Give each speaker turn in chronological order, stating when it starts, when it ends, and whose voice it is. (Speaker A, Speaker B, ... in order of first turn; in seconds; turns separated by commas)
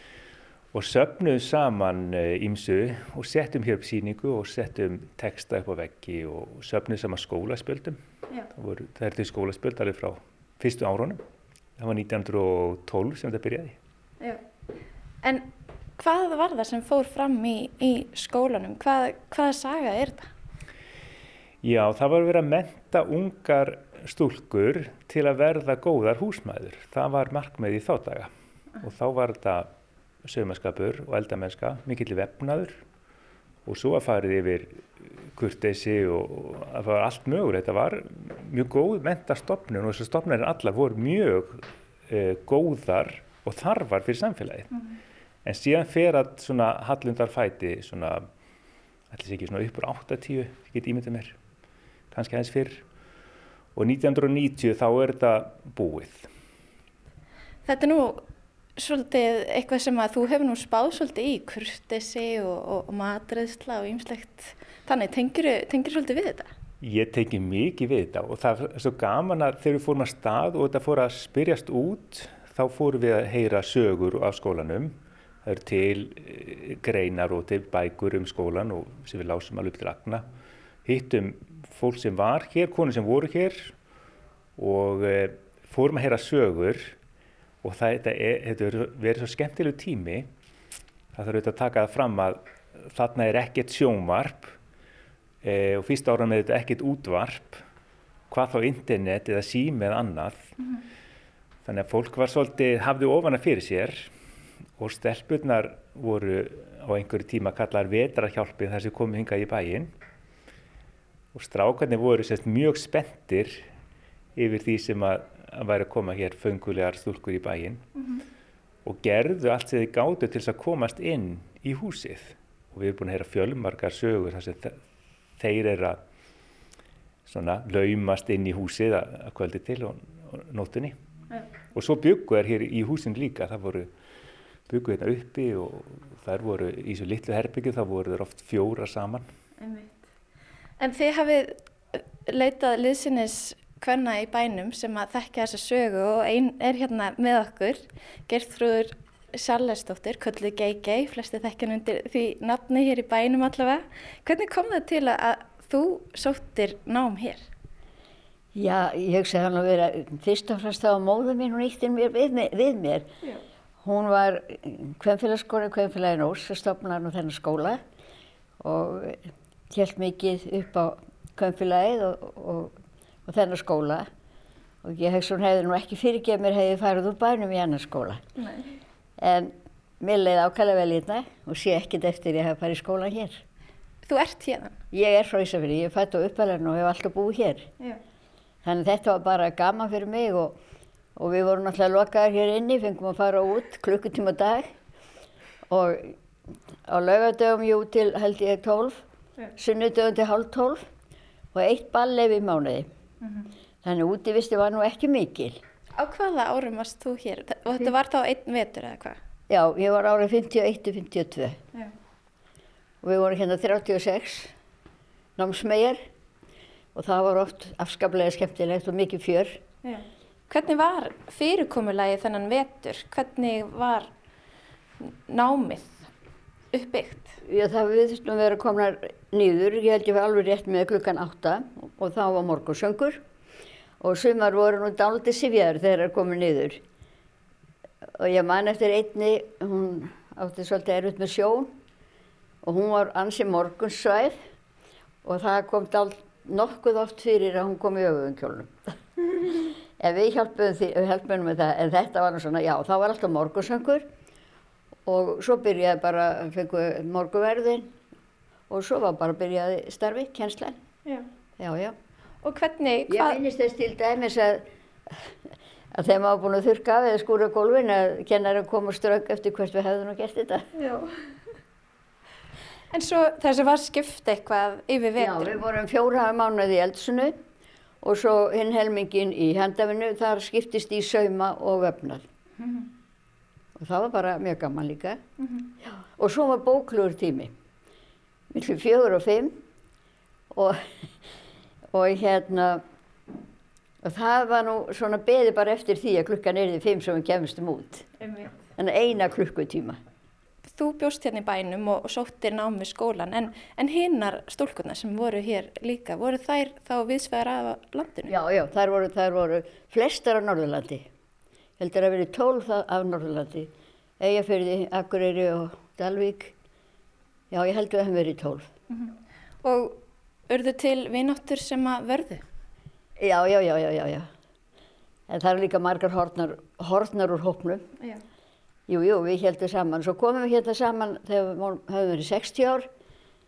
Speaker A: 0.7-8.0, Speaker A: 8.5-11.2, Speaker A: 11.8-13.8, Speaker B: 15.2-20.3, Speaker A: 21.6-29.7, Speaker A: 30.2-32.8, Speaker A: 33.7-44.7, Speaker A: 45.5-48.3, Speaker A: 49.1-51.4, Speaker A: 52.1-52.8, Speaker A: 53.8-56.3, Speaker B: 57.6-58.2, Speaker B: 58.8-66.5, Speaker A: 66.8-80.2, Speaker A: 80.8-83.8, Speaker A: 84.6-87.0, Speaker A: 87.6-90.3, Speaker A: 91.1-94.6, Speaker A: 95.4-97.6, Speaker A: 98.3-100.5, Speaker A: 101.7-104.1, Speaker A: 104.8-109.9, Speaker A: 111.3-113.7, Speaker A: 114.4-117.8, Speaker A: 118.8-124.8, Speaker A: 125.4-126.0, Speaker A: 127.3-131.0, Speaker A: 131.7-133.9, Speaker A: 134.7-139.3, Speaker B: 139.6-140.0, Speaker B: 140.8-157.4, Speaker C: 158.6-163.1, Speaker C: 163.8-167.8, Speaker C: 168.6-172.8, Speaker C: 173.3-174.1, Speaker C: 174.8-178.2, Speaker B: 178.4-178.7, Speaker C: 179.2-183.4, Speaker B: 184.1-184.8, Speaker C: 184.9-187.7, Speaker C: 188.6-190.6, Speaker C: 191.2-194.7, Speaker C: 195.7-196.2, Speaker C: 196.9-199.0, Speaker C: 199.6-200.8, Speaker C: 201.5-202.9, Speaker B: 203.2-203.5, Speaker C: 203.8-205.6, Speaker B: 206.0-209.2, Speaker C: 209.5-211.6, Speaker C: 213.0-214.5, Speaker C: 215.4-216.0, Speaker C: 216.9-219.6, Speaker B: 219.8-224.1, Speaker B: 225.0-226.1, Speaker B: 226.7-227.4, Speaker C: 227.4-233.2, Speaker C: 234.0-236.8, Speaker C: 238.2-241.7, Speaker C: 242.6-244.4, Speaker C: 245.2-254.1, Speaker C: 255.1-257.9, Speaker C: 258.7-260.8, Speaker C: 261.6-262.0, Speaker B: 262.4-263.4, Speaker C: 263.1-265.3, Speaker C: 265.9-270.7, Speaker B: 270.8-271.1, Speaker B: 272.9-275.6, Speaker C: 275.2-277.4, Speaker C: 278.0-282.2, Speaker B: 282.6-282.9, Speaker C: 283.8-285.2, Speaker B: 285.4-285.7, Speaker C: 285.8-287.5, Speaker C: 288.5-289.6, Speaker C: 290.5-290.8, Speaker C: 291.9-292.8, Speaker C: 294.0-298.1, Speaker B: 298.2-298.5, Speaker C: 298.8-300.0, Speaker B: 300.6-308.3, Speaker C: 308.3-311.1, Speaker C: 311.8-316.5, Speaker C: 317.5-318.7, Speaker B: 318.9-322.4, Speaker C: 323.2-324.3, Speaker C: 325.3-327.9, Speaker C: 328.9-332.9